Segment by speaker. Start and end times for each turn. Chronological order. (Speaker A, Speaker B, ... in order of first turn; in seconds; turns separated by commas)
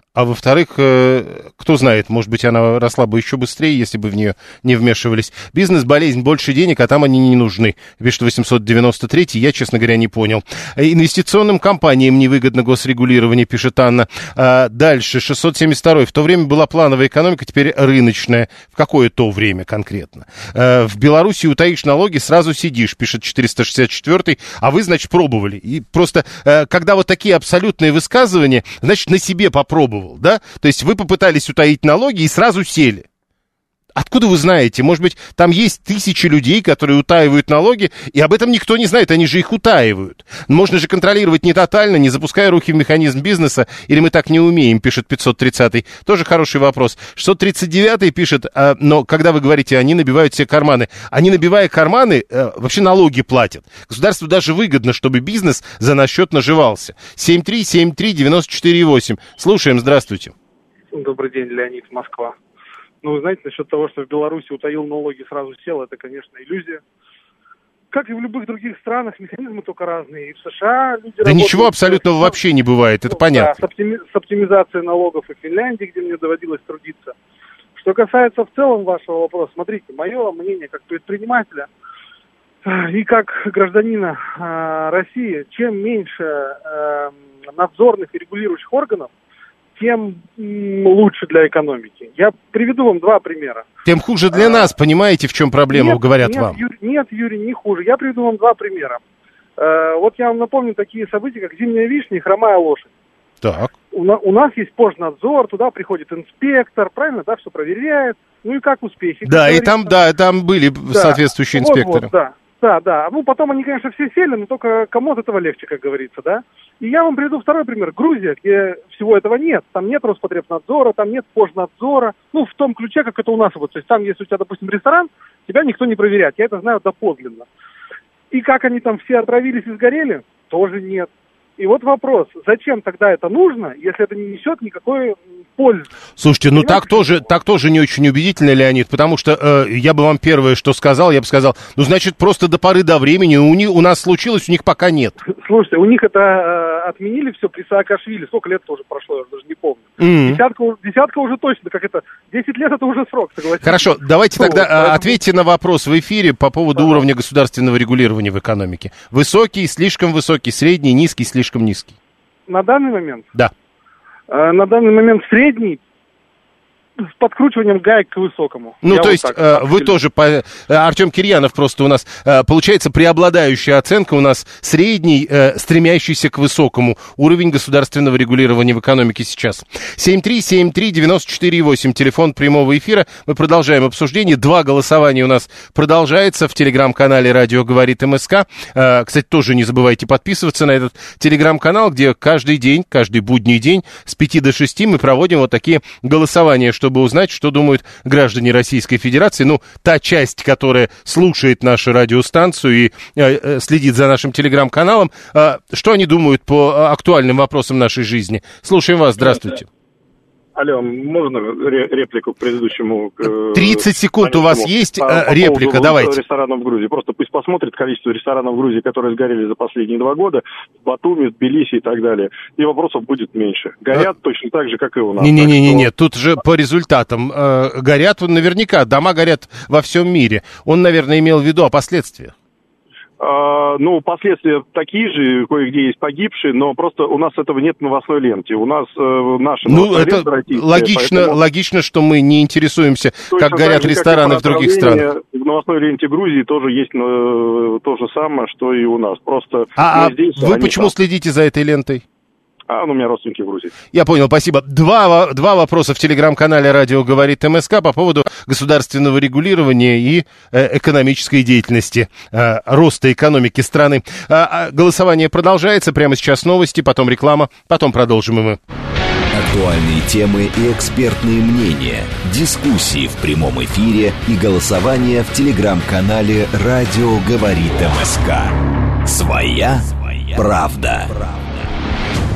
Speaker A: 0.1-33.0, Speaker A: 33.9-60.3, Speaker B: 60.9-62.4, Speaker B: 63.0-66.8, Speaker B: 67.9-72.4, Speaker A: 71.2-73.6, Speaker B: 73.1-77.1, Speaker B: 77.8-81.7, Speaker B: 82.6-89.1, Speaker B: 89.8-93.7, Speaker A: 93.8-96.6, Speaker B: 94.3-94.7, Speaker B: 95.7-99.0, Speaker B: 99.6-102.9, Speaker A: 103.4-103.7, Speaker B: 103.9-110.0, Speaker A: 109.2-112.1, Speaker B: 110.9-127.5, Speaker B: 128.3-136.0, Speaker A: 136.2-145.2, Speaker B: 136.5-137.2, Speaker B: 145.4-155.2, Speaker A: 150.0-150.4, Speaker A: 153.6-161.9, Speaker B: 156.8-157.0, Speaker B: 162.5-163.3, Speaker B: 164.3-165.8, Speaker B: 167.0-169.9, Speaker A: 168.8-209.7, Speaker C: 210.6-225.9, Speaker A: 213.5-216.2, Speaker A: 225.2-232.3, Speaker C: 233.2-241.4, Speaker A: 239.7-245.0, Speaker C: 243.3-250.9, Speaker A: 249.8-252.0, Speaker C: 252.7-253.7, Speaker A: 253.9-268.6, Speaker D: 269.3-281.4